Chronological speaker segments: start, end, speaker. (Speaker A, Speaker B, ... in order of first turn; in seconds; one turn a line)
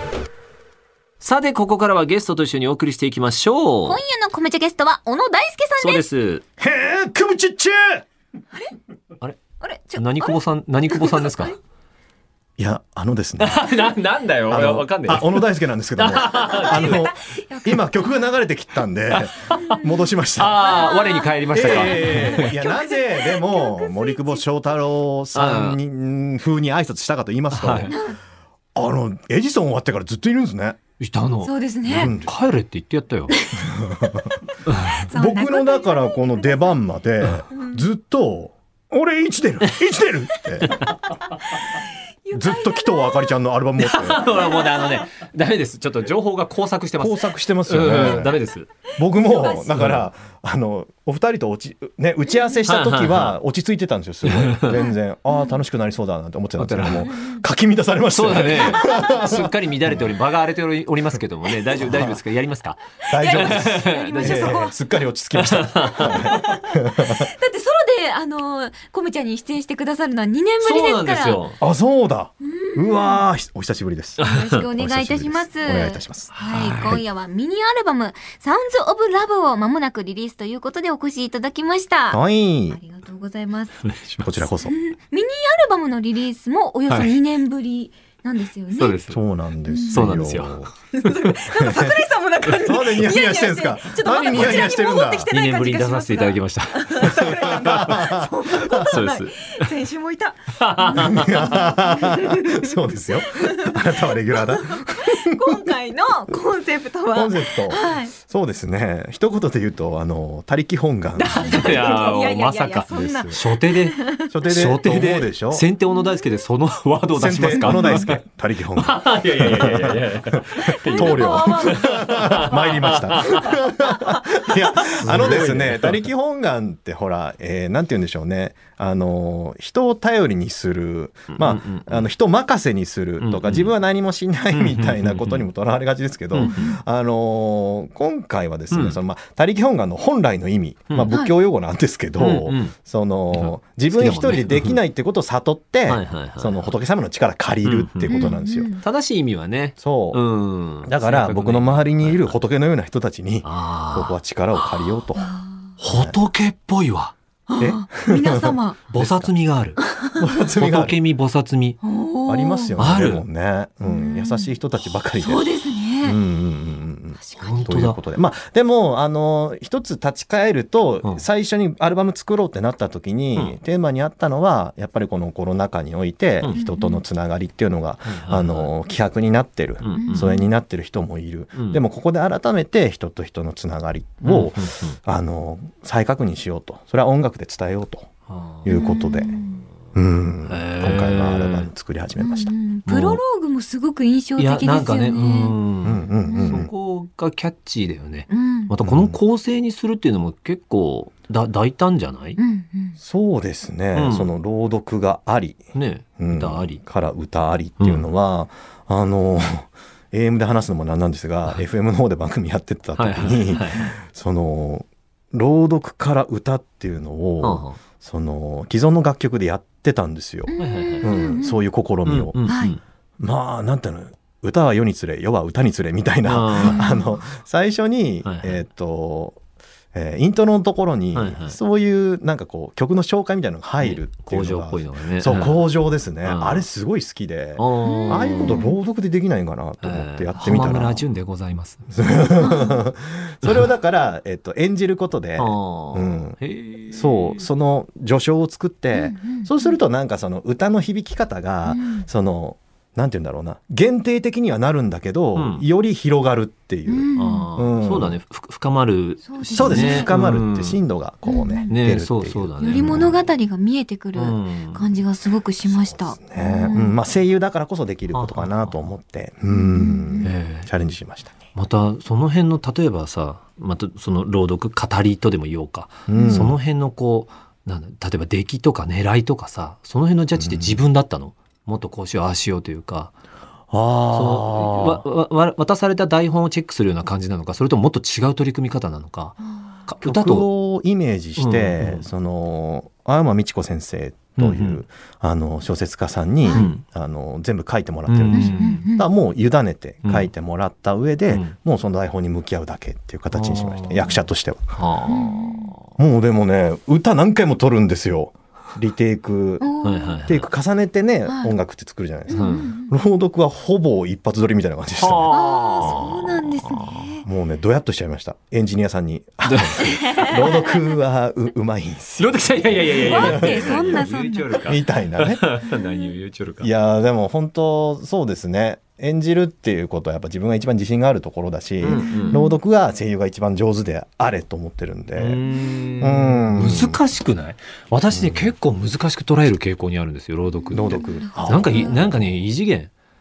Speaker A: 1.2-4.0
Speaker B: 3.9-6.1
Speaker A: 5.8-6.4
Speaker C: 6.6-8.1
Speaker B: 9.6-11.6
Speaker A: 9.9-11.6
Speaker C: 12.6-13.7
Speaker A: 13.4-15.4
Speaker C: 14.5-20.7
Speaker A: 16.0-17.1
Speaker B: 16.8-18.0
Speaker A: 19.1-19.8
Speaker B: 19.6-19.9
Speaker A: 20.4-22.5
Speaker B: 20.6-24.4
Speaker C: 21.5-28.1
Speaker A: 25.3-25.8
Speaker A: 27.5-28.0
Speaker B: 27.9-28.2
Speaker C: 28.8-30.8
Speaker A: 31.0-31.5
Speaker B: 31.4-32.1
Speaker C: 31.9-32.3
Speaker A: 32.2-33.4
Speaker B: 33.3-34.2
Speaker C: 33.5-34.4
Speaker A: 34.7-35.1
Speaker C: 34.9-40.9
Speaker B: 35.0-36.6
Speaker B: 37.5-37.8
Speaker A: 40.6-41.0
Speaker B: 41.5-43.4
Speaker C: 42.3-44.3
Speaker A: 43.8-48.7
Speaker B: 44.3-45.1
Speaker C: 47.0-48.4
Speaker C: 49.0-60.1
Speaker B: 49.1-49.8
Speaker A: 49.7-50.0
Speaker A: 52.7-53.4
Speaker A: 54.2-54.8
Speaker B: 54.7-55.6
Speaker A: 56.6-57.1
Speaker B: 57.1-57.4
Speaker A: 58.1-64.6
Speaker B: 58.7-59.2
Speaker C: 61.8-62.2
Speaker B: 63.0-64.8
Speaker C: 63.1-67.3
Speaker A: 65.4-66.6
Speaker B: 66.0-71.4
Speaker A: 70.6-71.6
Speaker C: 71.6-76.3
Speaker B: 72.4-73.2
Speaker A: 74.2-74.7
Speaker B: 74.2-83.9
Speaker A: 76.3-77.0
Speaker C: 82.1-82.8
Speaker A: 83.8-84.3
Speaker C: 84.2-84.8
Speaker B: 84.6-89.0
Speaker A: 88.7-89.2
Speaker C: 89.1-90.7
Speaker B: 89.7-90.0
Speaker A: 89.9-91.4
Speaker B: 90.9-108.1
Speaker C: 91.5-92.0
Speaker C: 92.6-95.3
Speaker A: 95.3-99.8
Speaker C: 97.1-98.8
Speaker A: 100.6-101.7
Speaker C: 101.0-105.7
Speaker C: 107.1-111.9
Speaker B: 111.2-114.3
Speaker A: 111.4-118.2
Speaker C: 112.9-113.4
Speaker C: 114.3-115.7
Speaker B: 115.9-116.3
Speaker C: 117.2-148.8
Speaker B: 117.6-118.1
Speaker A: 118.8-123.6
Speaker B: 120.8-122.6
Speaker B: 123.4-124.2
Speaker A: 124.8-126.1
Speaker A: 131.3-132.1
Speaker A: 133.2-133.7
Speaker A: 134.5-135.5
Speaker A: 136.3-136.7
Speaker B: 136.4-136.8
Speaker A: 138.7-139.0
Speaker B: 141.1-141.3
Speaker A: 142.2-142.8
Speaker A: 143.3-144.8
Speaker A: 145.9-146.7
Speaker A: 147.6-152.3
Speaker B: 148.1-148.8
Speaker C: 149.8-150.2
Speaker C: 150.8-155.3
Speaker A: 153.4-154.2
Speaker B: 155.2-155.7
Speaker A: 155.8-157.2
Speaker C: 155.9-156.2
Speaker B: 157.5-158.8
Speaker C: 157.6-159.3
Speaker A: 158.9-159.8
Speaker B: 159.8-160.2
Speaker C: 160.1-161.0
Speaker A: 160.6-161.8
Speaker B: 161.8-162.8
Speaker C: 162.3-188.1
Speaker A: 162.8-163.2
Speaker B: 163.8-164.5
Speaker B: 165.1-166.2
Speaker B: 167.2-167.7
Speaker A: 167.4-168.0
Speaker B: 176.5-177.0
Speaker A: 178.1-178.7
Speaker A: 179.8-180.4
Speaker B: 179.9-180.4
Speaker A: 181.5-181.8
Speaker A: 184.2-185.0
Speaker A: 188.3-188.8
Speaker C: 188.7-189.3
Speaker B: 188.7-189.6
Speaker C: 189.9-192.5
Speaker A: 190.5-191.7
Speaker B: 192.2-195.6
Speaker A: 192.9-193.2
Speaker A: 194.4-202.4
Speaker C: 195.8-196.7
Speaker B: 196.3-196.6
Speaker B: 198.3-198.7
Speaker C: 198.8-199.2
Speaker B: 202.4-203.0
Speaker C: 203.0-205.6
Speaker A: 203.9-204.3
Speaker A: 205.7-206.8
Speaker C: 206.2-222.4
Speaker A: 207.8-208.1
Speaker A: 213.0-213.9
Speaker A: 217.4-217.8
Speaker B: 220.5-221.6
Speaker A: 220.6-221.1
Speaker A: 222.1-222.8
Speaker B: 222.5-222.8
Speaker C: 223.2-229.4
Speaker A: 226.2-226.9
Speaker B: 226.6-227.2
Speaker A: 228.2-228.6
Speaker C: 229.9-241.0
Speaker A: 231.1-231.6
Speaker A: 233.8-235.6
Speaker A: 236.2-236.7
Speaker A: 237.6-238.7
Speaker B: 237.8-238.8
Speaker A: 239.8-241.9
Speaker C: 241.9-246.4
Speaker B: 242.4-242.8
Speaker A: 245.4-247.5
Speaker C: 246.9-258.1
Speaker B: 248.9-249.8
Speaker B: 251.7-252.1
Speaker A: 255.4-255.7
Speaker B: 256.9-257.5
Speaker A: 257.2-260.8
Speaker B: 259.3-260.1
Speaker C: 259.5-263.1
Speaker B: 261.3-261.7
Speaker A: 261.7-263.2
Speaker B: 262.6-267.0
Speaker A: 264.2-264.9
Speaker C: 265.6-271.5
Speaker A: 268.1-268.9
Speaker B: 269.5-270.3
Speaker A: 270.2-270.7
Speaker A: 271.5-283.1
Speaker C: 276.1-276.6
Speaker B: 276.1-276.5
Speaker C: 280.4-280.8
Speaker C: 283.7-285.1
Speaker A: 284.1-290.5
Speaker C: 290.0-304.8
Speaker A: 291.4-292.1
Speaker A: 294.4-294.8
Speaker A: 296.5-296.8
Speaker A: 298.1-298.9
Speaker B: 298.3-299.1
Speaker A: 300.0-300.3
Speaker A: 301.3-301.6
Speaker A: 303.3-304.2
Speaker A: 304.8-305.9
Speaker B: 305.1-305.7
Speaker C: 306.0-309.7
Speaker B: 309.6-310.1
Speaker A: 309.8-310.5
Speaker C: 310.3-315.3
Speaker B: 311.3-311.6
Speaker B: 312.3-312.9
Speaker A: 312.3-312.7
Speaker A: 315.0-317.1
Speaker B: 315.3-317.2
Speaker C: 317.2-325.6
Speaker A: 319.4-320.3
Speaker B: 319.8-320.9
Speaker A: 322.2-326.7
Speaker B: 322.9-324.6
Speaker B: 325.7-326.1
Speaker C: 326.6-335.4
Speaker A: 331.8-332.4
Speaker B: 331.9-332.6
Speaker A: 335.2-342.9
Speaker B: 335.5-335.9
Speaker C: 336.0-337.0
Speaker C: 338.1-338.5
Speaker B: 340.7-341.9
Speaker C: 340.7-342.2